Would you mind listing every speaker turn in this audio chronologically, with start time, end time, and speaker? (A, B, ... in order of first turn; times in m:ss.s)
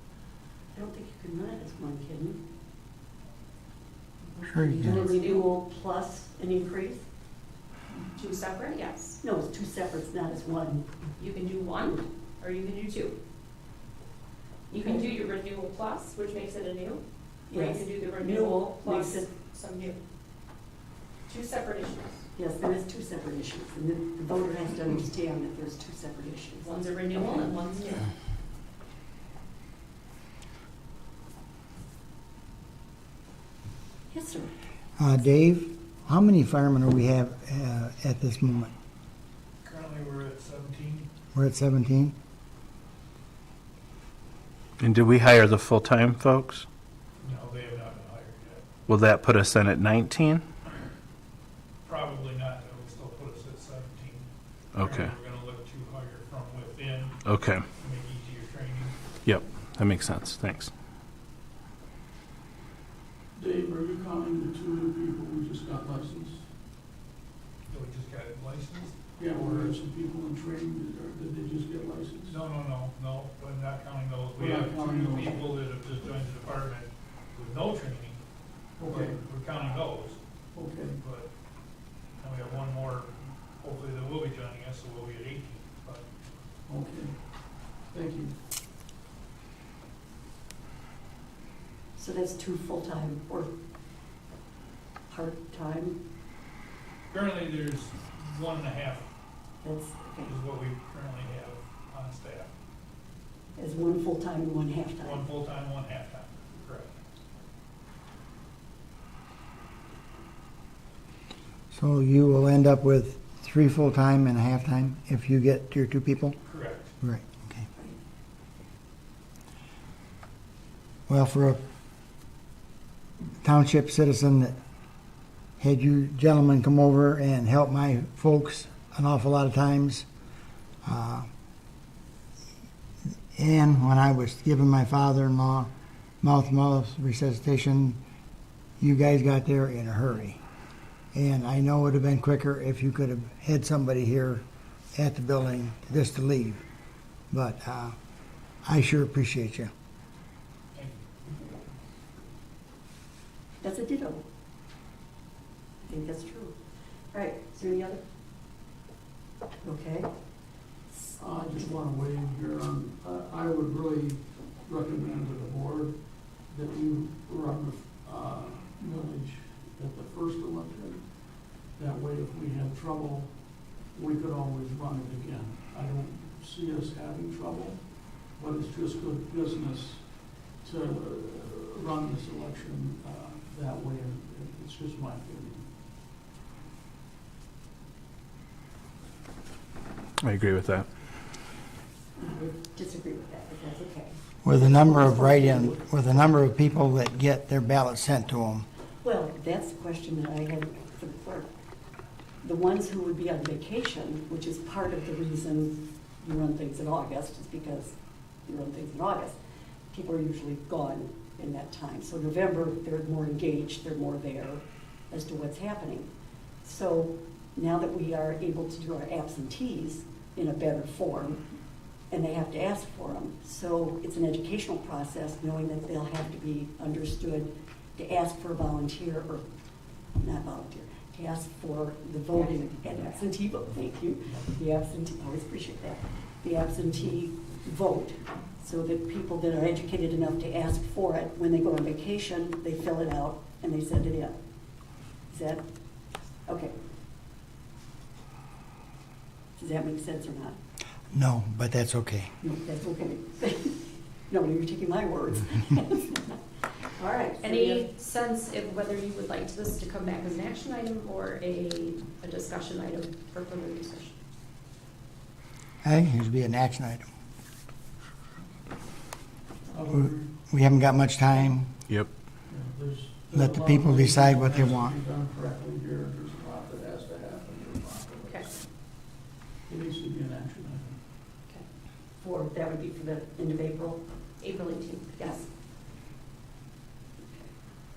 0:00.7-0:02.4 A
0:04.4-0:05.5 B
0:04.5-0:05.0 C
0:04.8-0:07.1 A
0:08.1-0:09.2 B
0:09.2-0:10.9 A
0:11.2-0:13.2 B
0:14.7-0:20.0 B
0:17.5-0:19.3 A
0:21.3-0:22.2 B
0:22.4-0:27.3 A
0:26.6-0:28.1 B
0:34.1-0:34.5 A
0:35.0-0:38.7 C
0:39.6-0:41.1 D
0:41.3-0:42.2 C
0:44.8-0:46.7 E
0:47.2-0:48.7 D
0:48.9-0:50.4 E
0:51.8-0:54.3 D
0:54.8-0:55.1 E
0:54.8-0:57.2 D
0:57.2-0:57.6 E
0:57.8-0:59.0 D
0:59.3-1:00.7 E
1:03.4-1:06.4 F
1:07.7-1:09.8 D
1:09.2-1:12.4 F
1:12.3-1:18.2 D
1:14.4-1:15.5 F
1:18.8-1:19.2 F
1:18.8-1:20.2 D
1:20.5-1:21.0 F
1:21.0-1:21.3 D
1:22.2-1:26.0 D
1:26.7-1:27.2 F
1:27.9-1:28.4 F
1:32.0-1:33.5 A
1:35.1-1:36.0 A
1:37.1-1:39.1 D
1:39.6-1:40.3 A
1:40.2-1:42.5 D
1:43.6-1:45.3 A
1:45.0-1:46.9 D
1:51.7-1:56.4 C
1:56.4-1:56.9 D
1:57.0-1:57.7 C
2:01.1-2:01.6 C
2:03.4-2:04.6 C
2:05.6-2:10.1 C
2:10.8-2:11.3 C
2:13.3-2:15.7 C
2:16.2-2:18.0 C
2:18.8-2:20.4 C
2:21.1-2:26.6 C
2:27.3-2:28.0 C
2:28.6-2:29.7 C
2:30.7-2:31.4 D
2:33.6-2:34.2 A
2:35.8-2:36.6 A
2:37.1-2:38.0 A
2:39.6-2:40.1 A
2:41.2-2:46.0 F
2:46.5-2:51.1 F
2:51.8-2:53.3 F
2:53.9-3:05.7 F
3:10.2-3:10.9 E
3:12.2-3:16.1 A
3:14.4-3:18.7 C
3:19.0-3:21.5 A
3:22.4-3:29.4 A
3:29.9-3:36.1 A
3:36.6-3:41.4 A
3:42.1-3:49.4 A
3:50.2-4:04.4 A
3:52.3-3:53.2 B
4:05.3-4:05.6 A
4:06.5-4:06.7 A
4:09.6-4:10.6 A
4:11.1-4:12.3 C
4:12.4-4:16.3 A
4:17.0-4:17.9 A
4:17.4-4:24.2 B
4:25.8-4:27.1 C
4:29.7-4:30.3 F
4:29.9-4:31.8 C
4:32.5-4:38.5 F
4:33.3-4:35.0 C
4:39.7-4:41.0 F
4:42.2-4:44.0 A
4:44.4-4:45.4 B
4:45.2-4:45.5 A
4:47.2-4:47.5 A